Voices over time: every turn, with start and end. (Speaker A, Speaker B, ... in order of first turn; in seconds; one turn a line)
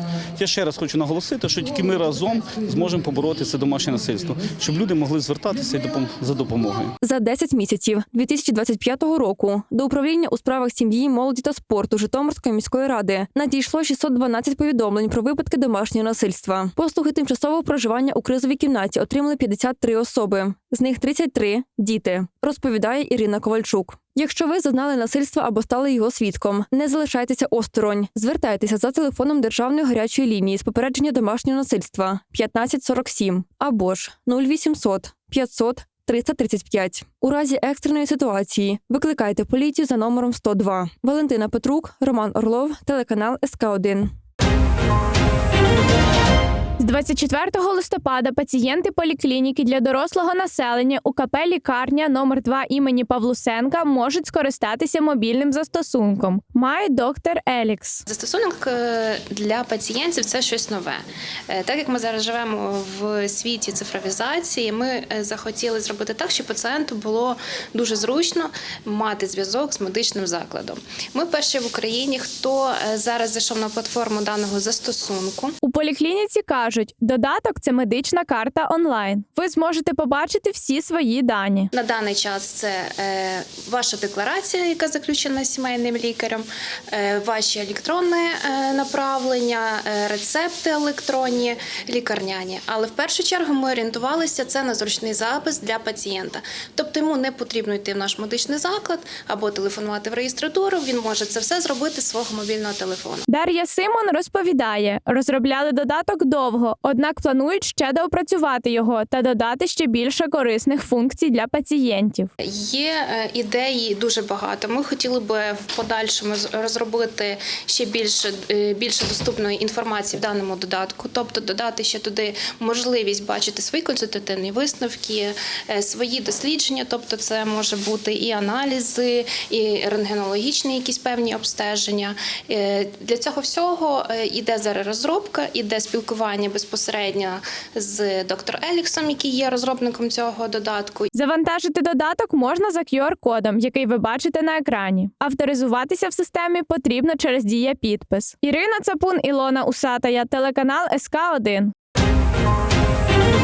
Speaker A: 0.4-6.9
Speaker B: 7.0-44.1
Speaker C: 46.8-58.0
Speaker D: 58.1-75.5
Speaker C: 75.6-81.7
Speaker D: 81.7-103.2
Speaker C: 103.3-112.3
Speaker D: 112.4-141.1
Speaker C: 141.1-151.7